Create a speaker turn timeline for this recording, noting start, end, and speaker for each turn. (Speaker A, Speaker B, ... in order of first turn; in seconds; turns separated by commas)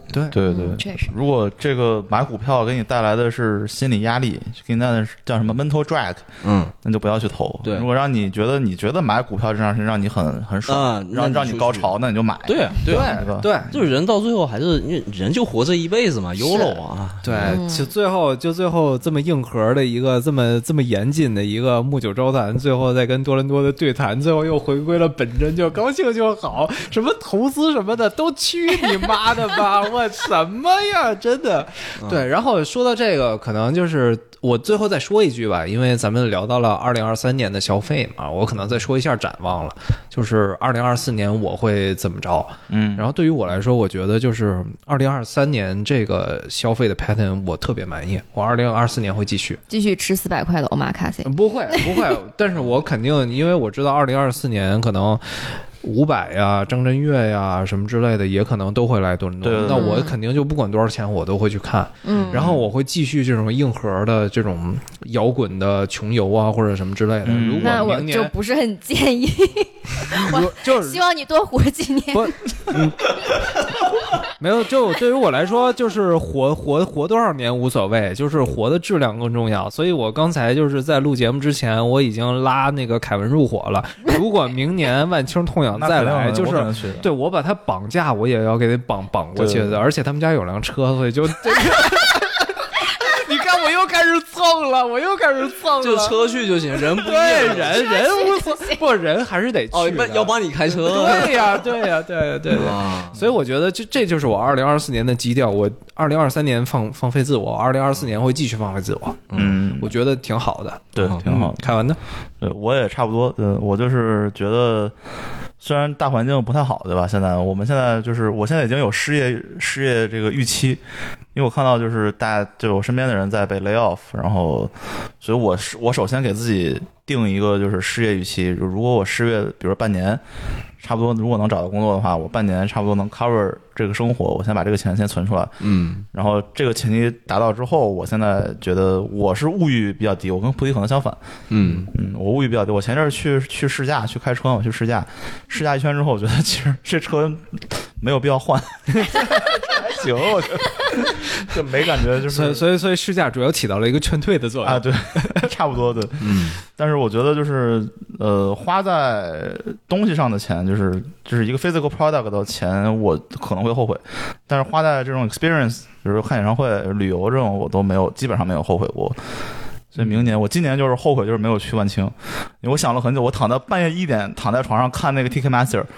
Speaker A: 0.1-0.4, Speaker B: 0.3-6.2, Speaker C: 0.4-1.1, Speaker D: 6.4-6.7, Speaker B: 6.8-13.8, Speaker D: 10.7-11.9, Speaker D: 12.4-17.6, Speaker A: 12.9-13.7, Speaker C: 16.4-16.8, Speaker A: 17.2-49.6, Speaker C: 17.4-17.9, Speaker D: 32.0-32.2, Speaker B: 42.7-43.1, Speaker C: 49.7-52.1, Speaker A: 51.2-68.3, Speaker B: 59.4-60.0, Speaker C: 59.6-60.2, Speaker C: 62.0-62.4, Speaker B: 62.1-62.5, Speaker D: 62.1-62.6, Speaker B: 67.2-68.0, Speaker C: 67.6-72.6, Speaker A: 70.1-71.0, Speaker A: 72.1-73.0, Speaker A: 74.4-96.2, Speaker B: 85.7-87.1, Speaker B: 89.3-89.8, Speaker D: 95.8-97.9, Speaker A: 97.0-112.0, Speaker C: 97.6-98.8, Speaker D: 99.7-101.7, Speaker D: 102.5-103.2, Speaker D: 109.3-109.5, Speaker B: 109.3-109.9, Speaker B: 110.9-111.7, Speaker D: 111.0-111.2, Speaker B: 112.4-114.9, Speaker B: 115.6-120.8, Speaker B: 121.3-130.2, Speaker B: 130.8-135.6, Speaker D: 135.6-136.0, Speaker B: 136.1-141.2, Speaker D: 141.5-141.9, Speaker B: 141.7-152.6, Speaker A: 152.3-155.5, Speaker B: 154.6-169.2, Speaker D: 156.2-156.6, Speaker B: 169.9-175.9